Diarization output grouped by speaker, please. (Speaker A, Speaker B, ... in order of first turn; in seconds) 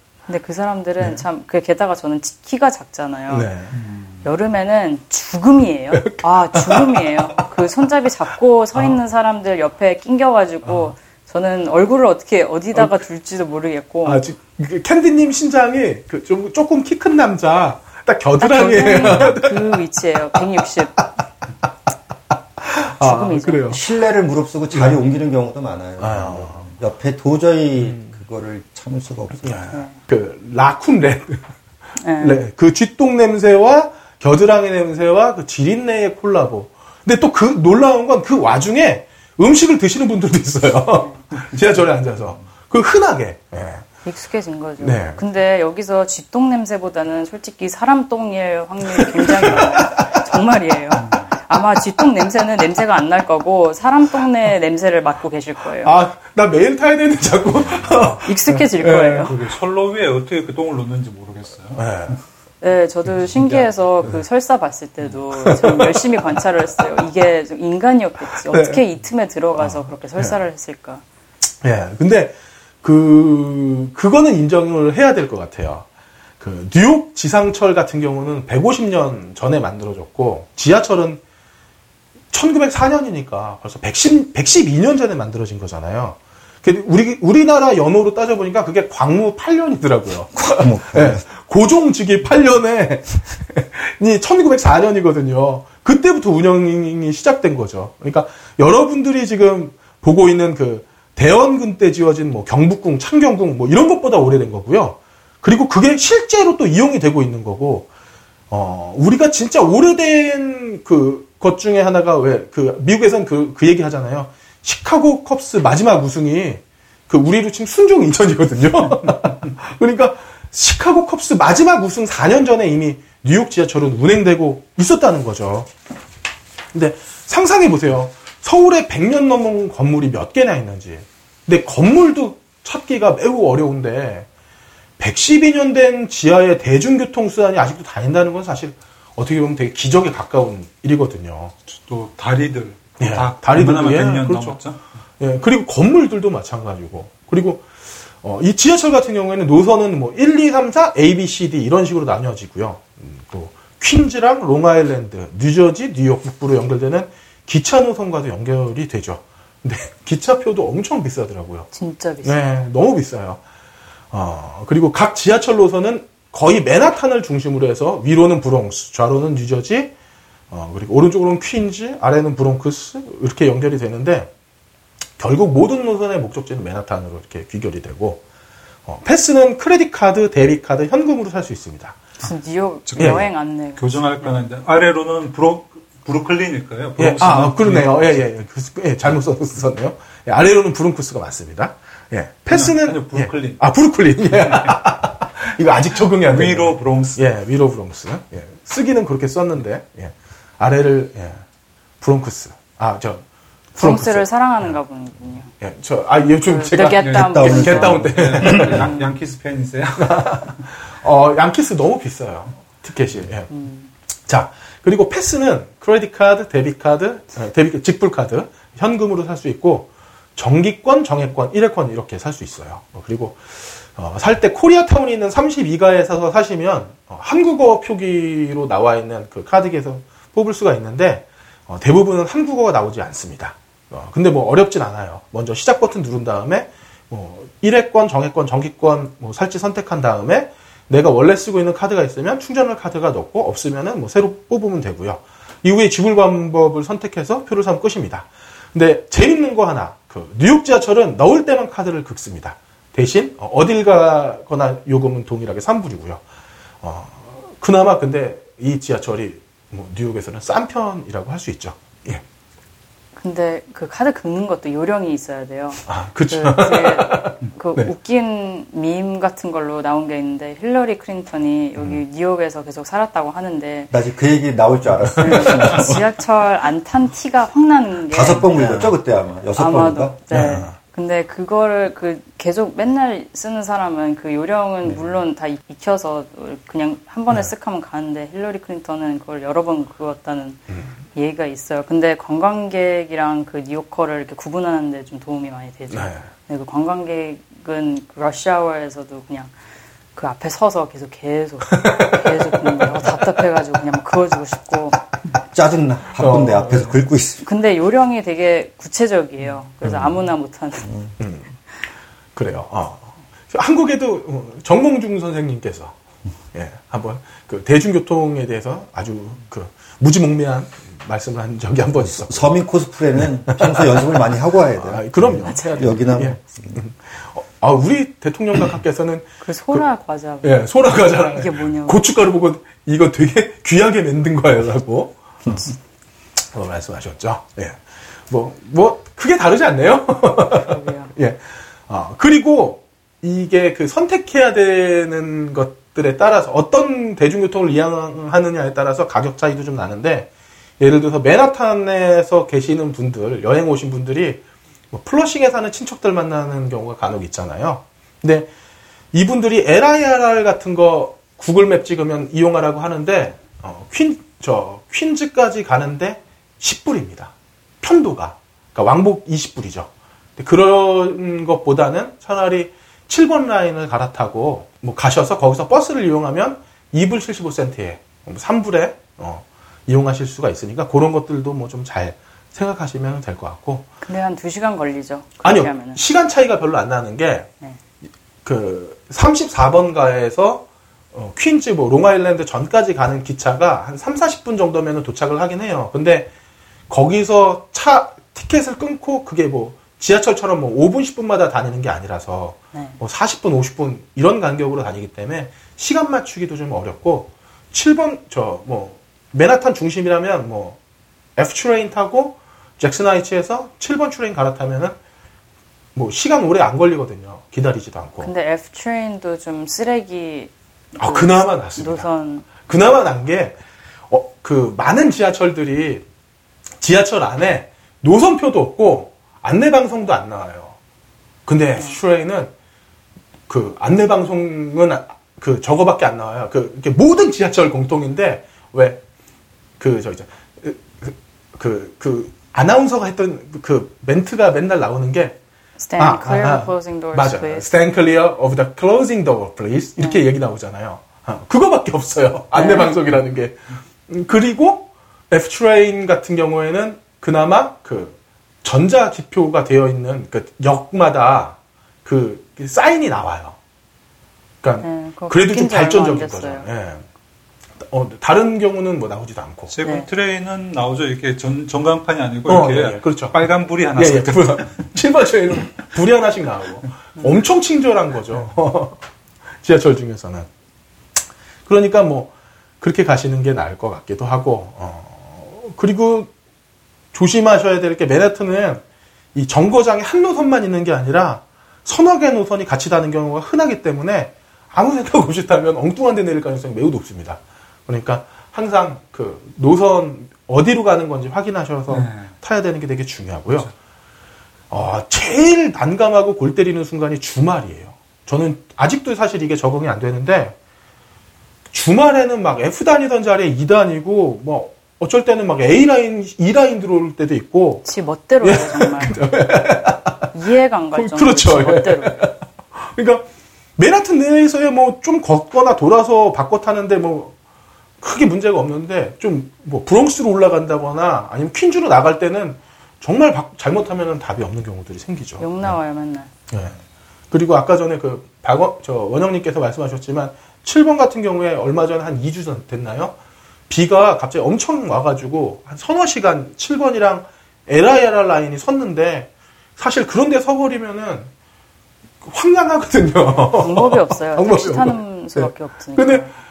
Speaker A: 0.3-3.5, 4.2-14.2, 18.4-20.9, 23.0-23.8, 29.7-29.9, 32.0-32.4, 44.0-55.9, 58.2-59.4, 62.6-71.0, 161.7-162.5, 182.2-184.4, 203.8-205.5, 206.2-209.1, 213.5-213.9, 263.1-273.9, 275.2-278.9, 279.6-290.6, 291.1-299.5, 300.1-305.0, 307.4-310.9, 325.4-326.1, 329.4-332.0, 340.6-341.1, 384.0-386.0, 418.2-420.5, 421.0-422.5, 445.8-447.7, 452.5-452.9, 464.8-466.7, 469.8-470.1, 517.8-519.2, 520.3-522.2, 535.4-536.3, 553.3-556.3
Speaker B: 3.3-3.7, 5.9-7.5, 14.0-19.8, 22.6-23.8, 24.7-25.0, 26.0-26.7, 27.8-28.1, 29.4-31.4, 32.2-43.9, 44.8-45.2, 49.0-50.2, 55.8-59.3, 61.8-62.2, 63.4-63.6, 65.3-66.1, 68.4-68.8, 69.6-70.4, 71.6-75.8, 76.4-81.2, 82.3-107.9, 108.5-125.7, 126.7-134.3, 135.0-141.5, 143.0-144.6, 145.2-147.7, 148.2-161.7, 162.2-163.4, 164.1-169.9, 170.5-174.3, 175.2-178.2, 178.8-182.0, 183.0-183.2, 187.0-201.4, 202.0-204.2, 205.6-208.9, 210.0-213.5, 214.3-256.2, 256.8-262.2, 265.9-267.9, 275.0-275.9, 278.6-278.9, 280.3-280.7, 295.9-296.3, 301.7-302.9, 306.2-307.0, 311.2-311.5, 312.4-315.9, 316.5-322.5, 323.3-329.8, 330.4-335.7, 336.5-354.4, 354.9-358.5, 359.1-383.9, 385.4-387.5, 388.4-396.3, 396.9-410.8, 411.4-415.0, 415.9-418.3, 421.0-423.6, 424.1-426.0, 426.8-430.8, 431.4-432.5, 433.5-439.0, 439.8-445.4, 446.0-463.6, 464.6-467.0, 467.8-469.7, 472.4-473.4, 473.9-479.0, 479.6-480.5, 481.7-486.3, 487.1-488.8, 489.3-503.7, 504.7-510.6, 511.7-517.9, 518.4-520.3, 520.9-523.2, 523.8-527.3, 528.0-535.7, 536.5-536.8, 537.3-543.1, 543.7-551.3, 552.2-556.2
Speaker C: 3.7-4.2, 41.3-42.3, 50.9-51.3, 59.2-62.1, 141.7-144.8, 182.8-188.2, 192.5-193.6, 194.2-194.7, 196.3-197.2, 207.0-210.5, 469.7-474.9, 501.9-502.3
Speaker D: 23.0-29.6, 90.3-91.2, 208.4-208.8, 273.9-276.0, 278.1-280.6, 305.4-307.4, 310.8-311.1, 322.0-326.8